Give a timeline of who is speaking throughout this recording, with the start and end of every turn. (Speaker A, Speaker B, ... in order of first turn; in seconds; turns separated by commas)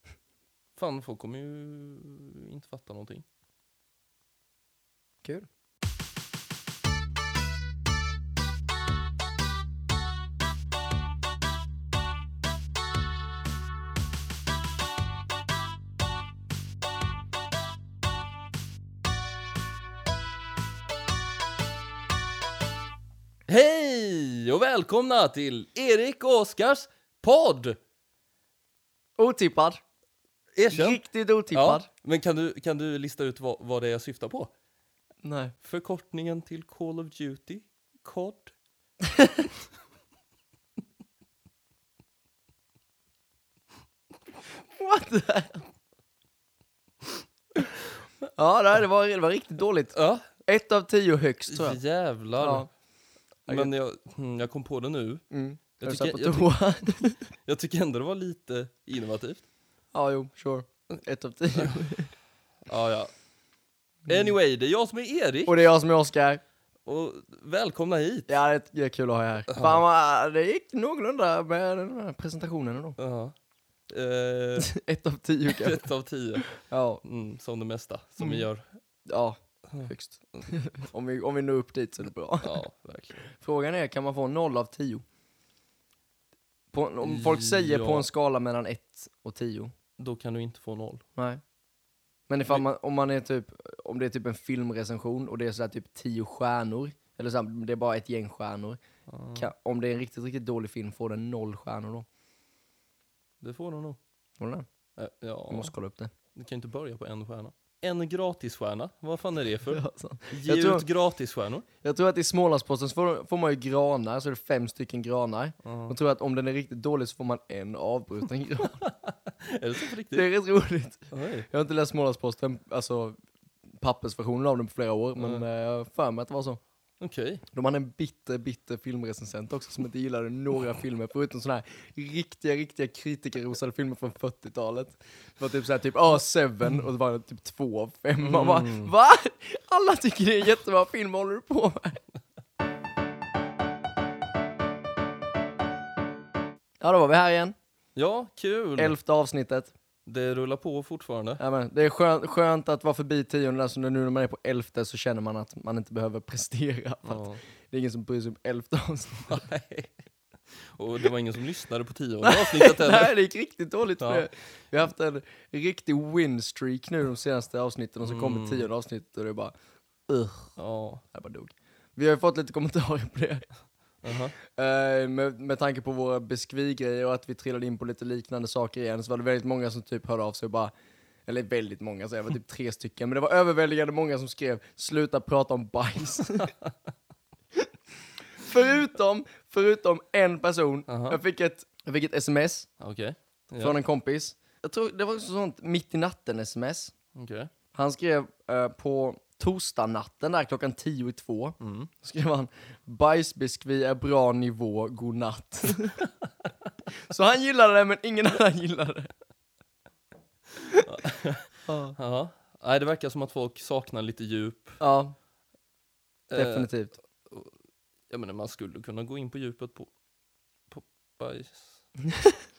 Speaker A: 0.8-3.2, Speaker A: 23.5-27.8, Speaker B: 29.2-29.8, Speaker A: 30.5-34.5, Speaker B: 30.7-31.9, Speaker B: 35.2-35.5, Speaker A: 35.6-38.5, Speaker B: 39.0-39.5, Speaker B: 44.8-45.6, Speaker B: 48.4-49.9, Speaker A: 49.9-50.2, Speaker B: 50.5-51.8, Speaker A: 51.5-52.6, Speaker B: 52.4-52.7, Speaker A: 53.5-55.2, Speaker B: 55.3-57.2, Speaker A: 55.8-59.5, Speaker B: 59.9-62.1, Speaker A: 62.6-63.1, Speaker B: 64.1-64.3, Speaker A: 64.1-65.6, Speaker B: 65.5-66.4, Speaker A: 66.8-68.3, Speaker B: 68.3-73.0, Speaker A: 69.5-69.8, Speaker A: 73.0-73.3, Speaker A: 73.9-74.7, Speaker B: 74.6-75.8, Speaker A: 75.5-76.5, Speaker B: 76.5-77.0, Speaker A: 77.0-78.8, Speaker B: 78.2-78.4, Speaker B: 79.1-82.6, Speaker A: 82.4-83.2, Speaker B: 83.2-85.0, Speaker B: 86.7-89.7, Speaker A: 87.0-88.0, Speaker A: 90.0-91.0, Speaker B: 91.2-91.4, Speaker B: 92.3-98.8, Speaker A: 99.1-99.5, Speaker B: 99.3-102.0, Speaker A: 103.4-104.0, Speaker B: 104.4-104.6, Speaker A: 105.0-105.7, Speaker B: 105.5-106.1, Speaker A: 106.3-111.7, Speaker B: 109.7-110.8, Speaker B: 111.8-118.8, Speaker A: 115.6-115.9, Speaker A: 118.6-120.3, Speaker B: 120.1-123.2, Speaker A: 121.1-121.5, Speaker B: 123.8-126.6, Speaker A: 125.2-125.4, Speaker A: 127.0-127.4, Speaker B: 127.5-142.0, Speaker A: 138.2-138.9, Speaker B: 146.8-147.5, Speaker A: 147.9-148.9, Speaker B: 148.8-149.7, Speaker A: 150.1-151.4, Speaker B: 151.4-159.5, Speaker A: 157.1-157.4, Speaker A: 159.3-159.9, Speaker A: 160.5-163.1, Speaker B: 162.2-169.5, Speaker A: 164.0-164.2, Speaker A: 168.0-168.7, Speaker B: 170.1-170.6, Speaker A: 170.6-171.0, Speaker B: 171.1-173.5, Speaker A: 174.0-174.3, Speaker B: 174.5-180.7, Speaker B: 181.3-186.5, Speaker B: 188.3-192.7, Speaker A: 190.9-191.2, Speaker A: 192.8-193.8, Speaker B: 193.6-196.9, Speaker A: 197.1-197.5, Speaker B: 197.7-206.1, Speaker A: 201.6-201.9, Speaker B: 207.0-209.1, Speaker A: 210.8-214.8, Speaker B: 211.7-211.9, Speaker B: 214.8-215.1, Speaker A: 216.3-216.7, Speaker B: 216.3-217.0, Speaker A: 217.2-217.5, Speaker A: 218.1-219.9, Speaker A: 220.7-221.8, Speaker B: 222.1-222.4